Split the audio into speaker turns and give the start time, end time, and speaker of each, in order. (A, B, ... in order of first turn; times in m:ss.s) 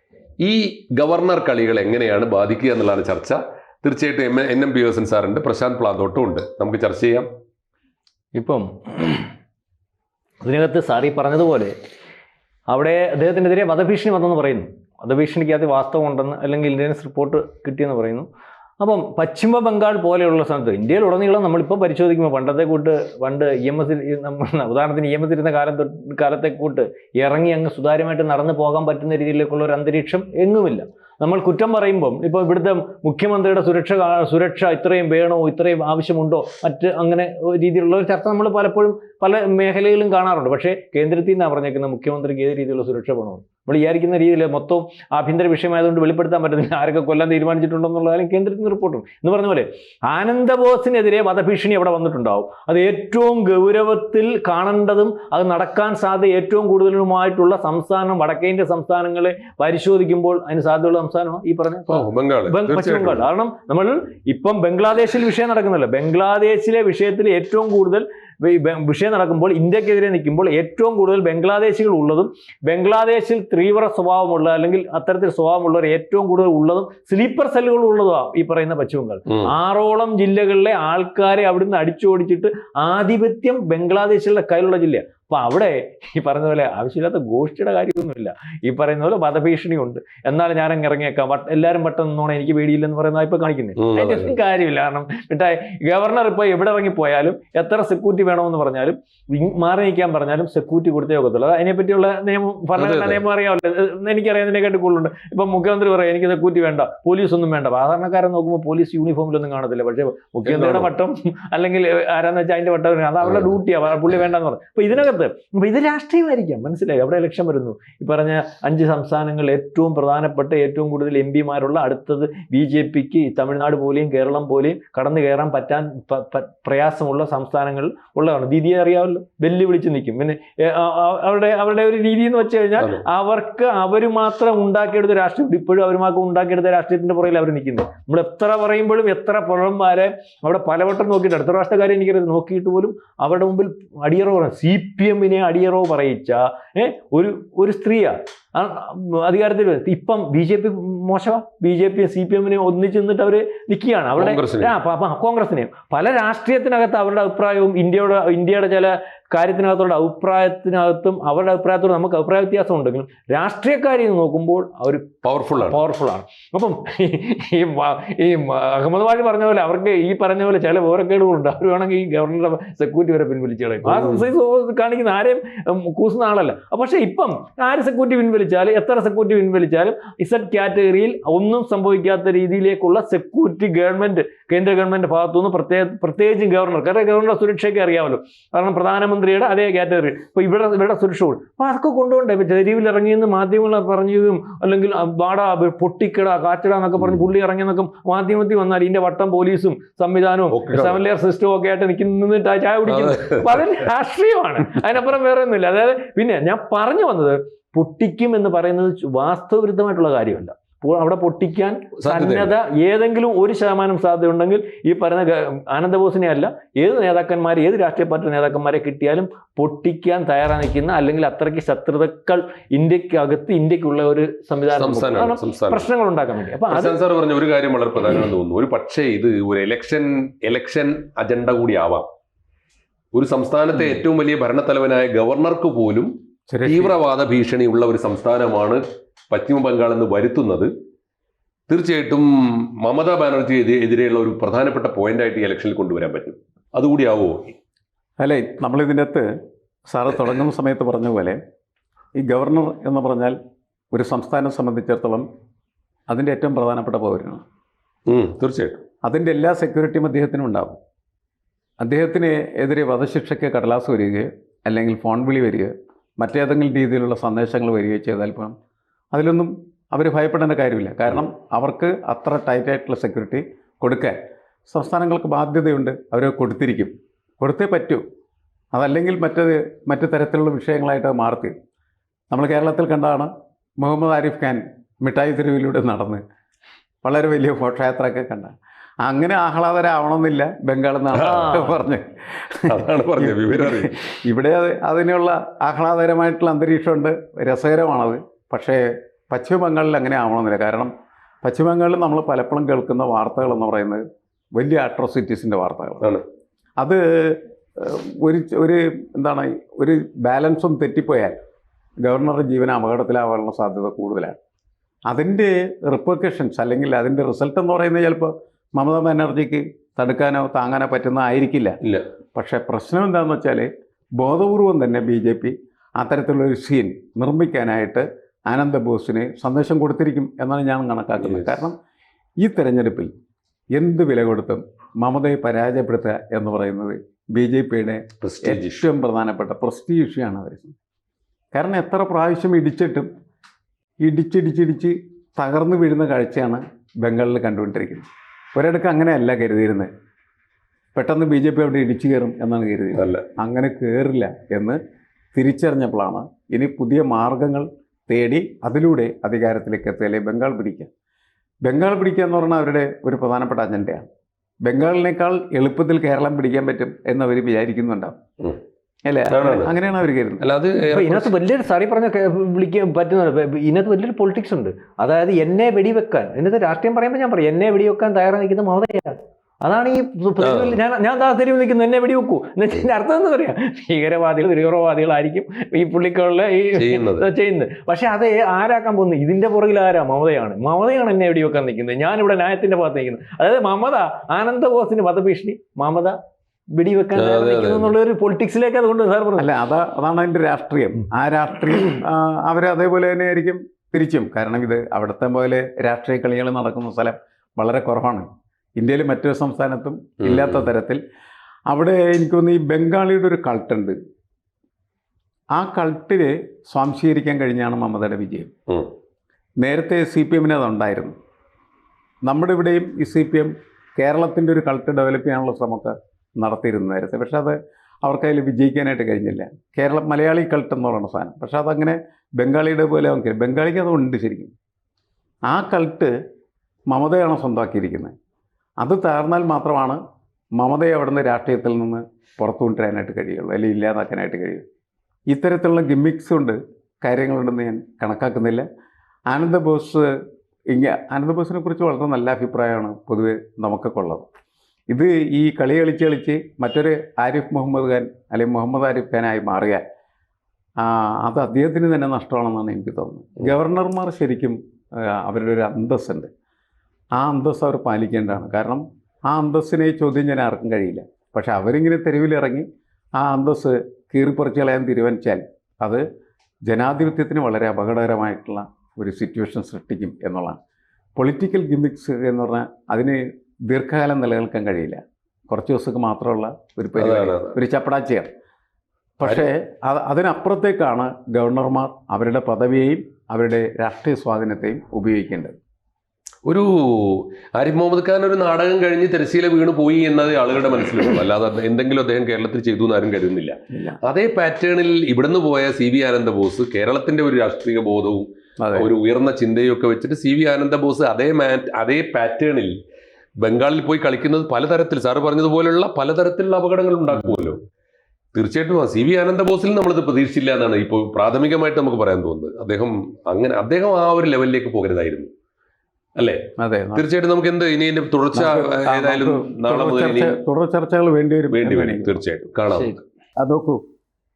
0:00.4-0:07.3 A
0:08.3-0:09.3 B
0:10.4-0:11.7 B
0:12.7-0:18.3 B
0:18.8-3:47.0 B
1:01.9-1:03.2 A
1:33.8-1:34.4 A
1:42.8-1:43.2 A
1:50.4-1:50.9 A
2:12.8-2:13.0 A
2:34.2-2:34.7 A
2:45.2-2:45.8 A
2:53.9-2:54.2 A
3:20.5-3:21.0 A
3:22.9-3:23.6 A
3:32.0-3:32.5 A
3:44.7-3:45.8 A
3:46.7-3:52.1 A
3:53.1-3:56.1 A
3:56.5-3:57.0 C
3:56.6-4:00.7 A
4:01.7-4:02.3 A
4:02.8-4:07.5 A
4:08.2-4:09.3 C
4:09.9-4:11.4 C
4:12.2-4:13.4 C
4:13.9-4:15.2 C
4:16.1-4:17.4 C
4:18.1-4:18.8 A
4:19.0-4:20.8 C
4:21.8-4:28.5 C
4:29.1-4:34.2 C
4:34.7-4:38.0 C
4:38.7-4:41.5 C
4:42.3-4:46.2 C
4:47.0-4:48.5 C
4:49.0-5:00.9 C
4:51.1-4:51.7 A
4:51.3-4:51.7 B
4:52.7-4:53.9 A
5:01.4-5:04.0 C
5:04.6-5:06.1 C
5:06.8-5:11.4 C
5:12.0-5:14.4 C
5:15.1-5:21.8 C
5:22.3-5:31.8 C
5:31.2-5:31.6 A
5:32.4-5:33.1 C
5:33.7-5:40.7 C
5:38.2-5:38.8 A
5:41.5-5:43.1 C
5:44.0-5:49.9 C
5:50.9-5:54.8 C
5:52.9-5:53.2 A
5:55.3-6:00.9 C
6:01.6-6:04.0 C
6:04.6-6:08.1 C
6:09.0-6:10.4 C
6:09.3-6:09.7 A
6:10.4-6:11.3 A
6:10.9-6:36.2 B
6:20.4-6:20.8 A
6:26.7-6:27.2 A
6:36.8-6:39.5 B
6:37.1-6:37.9 A
6:39.4-6:51.0 C
6:50.2-6:50.6 A
6:51.7-6:54.0 C
6:55.5-6:58.5 C
6:59.6-7:01.1 C
7:02.2-7:14.5 C
7:15.5-7:16.1 C
7:16.9-7:18.1 C
7:18.8-7:20.0 C
7:20.6-7:24.6 C
7:25.3-7:28.6 C
7:29.3-7:30.1 C
7:30.7-7:34.3 C
7:34.9-7:39.8 C
7:40.8-7:46.3 C
7:47.2-7:52.6 C
7:53.2-7:56.0 C
7:56.7-8:00.6 C
8:01.2-8:08.3 C
8:07.0-8:07.6 A
8:09.2-8:15.5 C
8:16.4-8:32.7 A
8:28.6-8:28.9 C
8:33.4-8:37.6 A
8:38.3-8:45.3 A
8:46.6-8:47.0 C
8:46.9-8:50.4 A
8:48.3-8:52.2 C
8:51.5-8:53.0 A
8:53.4-8:53.8 C